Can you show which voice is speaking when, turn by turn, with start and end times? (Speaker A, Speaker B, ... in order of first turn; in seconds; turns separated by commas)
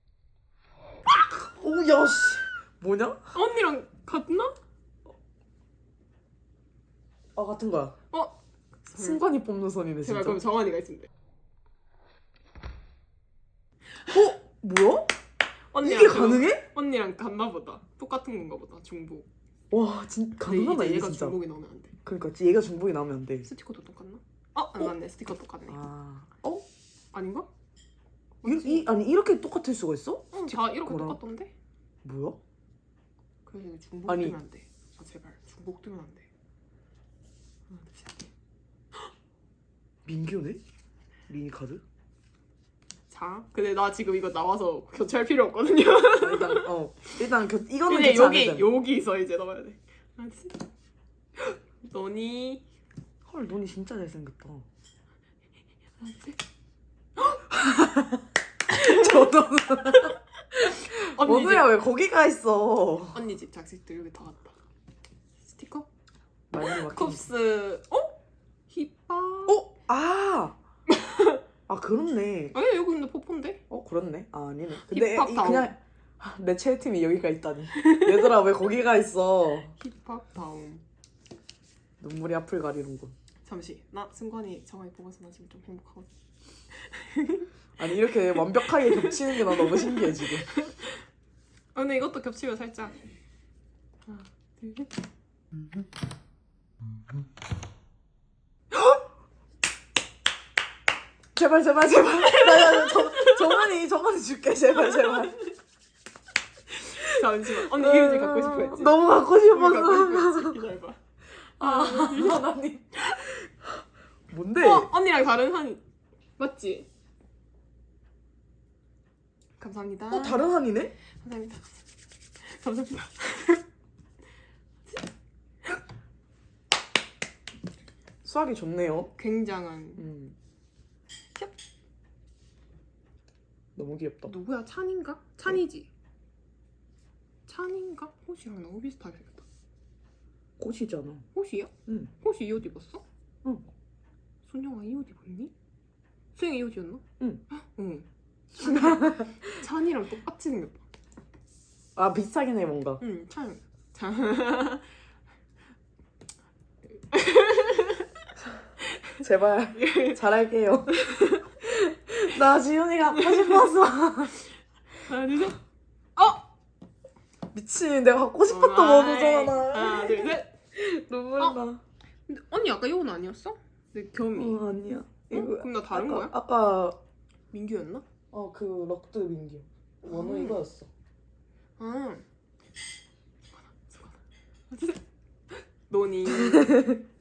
Speaker A: 1.1-3.3, Speaker B: 3.3-4.6, Speaker A: 7.3-8.0, Speaker B: 8.1-9.2, Speaker A: 8.9-10.4, Speaker B: 10.0-11.1, Speaker A: 14.0-15.1, Speaker B: 15.7-19.3, Speaker A: 15.8-16.7, Speaker A: 19.7-21.4, Speaker B: 20.4-21.9, Speaker A: 22.0-23.5, Speaker B: 23.4-25.9, Speaker A: 25.7-26.7, Speaker B: 27.1-27.5, Speaker B: 28.4-28.9, Speaker A: 28.4-31.2, Speaker B: 30.3-31.5, Speaker A: 32.0-32.4, Speaker B: 33.5-36.3, Speaker A: 34.1-34.4, Speaker B: 37.7-38.3, Speaker A: 40.0-40.6, Speaker A: 41.3-41.8, Speaker B: 43.1-46.7, Speaker A: 46.1-48.7, Speaker B: 47.9-50.7, Speaker B: 51.4-52.6, Speaker A: 53.2-54.6, Speaker B: 56.0-56.4, Speaker A: 57.5-63.2, Speaker B: 60.5-61.7, Speaker B: 63.1-64.5, Speaker B: 65.4-65.9, Speaker A: 66.5-67.3, Speaker B: 66.6-68.2, Speaker B: 68.7-69.6, Speaker A: 69.5-70.6, Speaker B: 70.9-71.4, Speaker A: 71.7-72.6, Speaker B: 72.5-73.6, Speaker A: 73.7-79.7, Speaker B: 74.7-75.7, Speaker B: 77.8-78.2, Speaker B: 79.8-80.8, Speaker A: 82.0-83.1, Speaker B: 83.4-86.1, Speaker B: 86.7-87.5, Speaker A: 87.8-90.5, Speaker B: 88.1-91.0, Speaker B: 91.7-93.0, Speaker B: 94.1-94.9, Speaker A: 101.3-105.4, Speaker B: 102.3-103.6, Speaker B: 104.8-105.5, Speaker B: 106.7-111.0, Speaker A: 107.3-110.6, Speaker A: 111.5-113.7, Speaker B: 111.6-113.3, Speaker A: 114.3-114.9, Speaker B: 114.5-115.8, Speaker B: 116.4-116.9, Speaker B: 119.6-120.5, Speaker A: 120.1-121.0, Speaker B: 121.0-121.8, Speaker B: 122.4-123.6, Speaker A: 128.2-129.1, Speaker B: 129.2-130.1, Speaker A: 130.0-130.3, Speaker A: 133.8-134.3, Speaker B: 134.2-135.9, Speaker B: 137.5-139.4, Speaker A: 140.6-141.2, Speaker B: 141.3-143.0, Speaker A: 141.9-142.1, Speaker B: 144.5-145.5, Speaker B: 146.3-150.8, Speaker A: 148.6-149.4, Speaker A: 151.9-153.0, Speaker B: 153.0-154.9, Speaker B: 157.1-158.3, Speaker A: 159.2-161.0, Speaker B: 159.7-160.2, Speaker B: 160.9-161.5, Speaker A: 161.6-164.4, Speaker B: 165.0-165.6, Speaker B: 166.2-166.4, Speaker A: 167.5-171.8, Speaker B: 168.5-170.5, Speaker B: 172.3-174.6, Speaker A: 174.3-177.0, Speaker B: 175.3-176.4, Speaker B: 177.5-178.0, Speaker A: 178.3-180.9, Speaker B: 180.0-180.6, Speaker B: 181.8-182.2, Speaker B: 183.6-187.0, Speaker A: 186.5-187.0